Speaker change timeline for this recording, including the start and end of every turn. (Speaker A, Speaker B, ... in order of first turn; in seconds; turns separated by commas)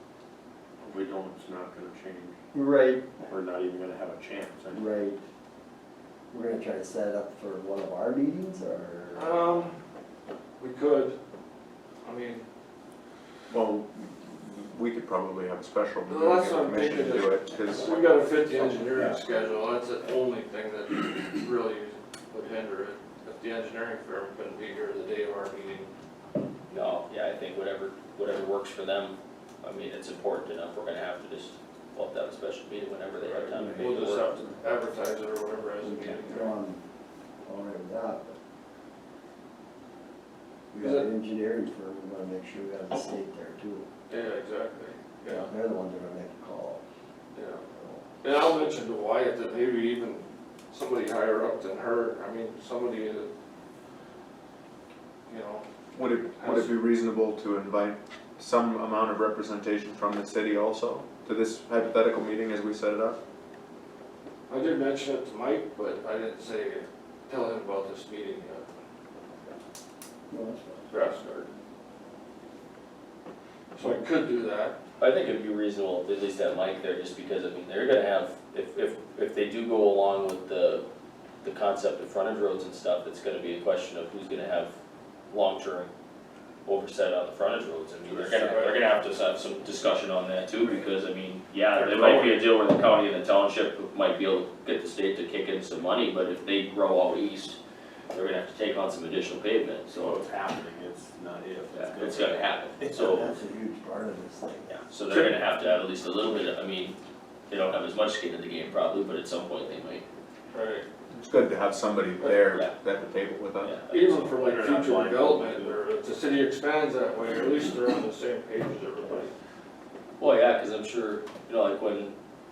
Speaker A: 0.8-2.3, Speaker B: 2.5-3.1, Speaker A: 3.3-4.8, Speaker B: 4.7-5.2, Speaker B: 6.3-9.4, Speaker C: 9.1-9.7, Speaker C: 10.6-11.2, Speaker C: 12.0-12.4, Speaker D: 13.5-17.9, Speaker C: 16.1-25.9, Speaker E: 26.7-34.3, Speaker C: 33.2-36.6, Speaker B: 33.6-34.4, Speaker B: 35.8-36.8, Speaker B: 37.5-38.4, Speaker B: 40.7-43.9, Speaker C: 40.8-41.1, Speaker C: 44.1-45.5, Speaker B: 45.3-46.8, Speaker C: 47.3-47.6, Speaker B: 47.7-48.1, Speaker C: 48.2-53.3, Speaker C: 55.3-55.6, Speaker D: 55.9-63.2, Speaker C: 56.3-56.8, Speaker C: 64.5-68.7, Speaker B: 70.3-70.9, Speaker C: 70.9-71.4, Speaker C: 73.7-74.7, Speaker E: 75.0-80.8, Speaker E: 81.4-84.7, Speaker E: 85.3-85.9, Speaker E: 86.7-97.6, Speaker C: 88.1-88.8, Speaker C: 91.8-92.3, Speaker E: 98.1-100.2, Speaker A: 99.9-103.2, Speaker E: 101.7-103.3, Speaker B: 102.8-104.7, Speaker E: 104.7-107.0, Speaker C: 105.1-105.4, Speaker E: 107.5-110.0, Speaker C: 110.5-110.8, Speaker D: 111.1-113.8, Speaker E: 112.4-112.7, Speaker E: 113.6-114.3, Speaker A: 113.9-115.8, Speaker C: 113.9-119.3, Speaker E: 120.2-122.1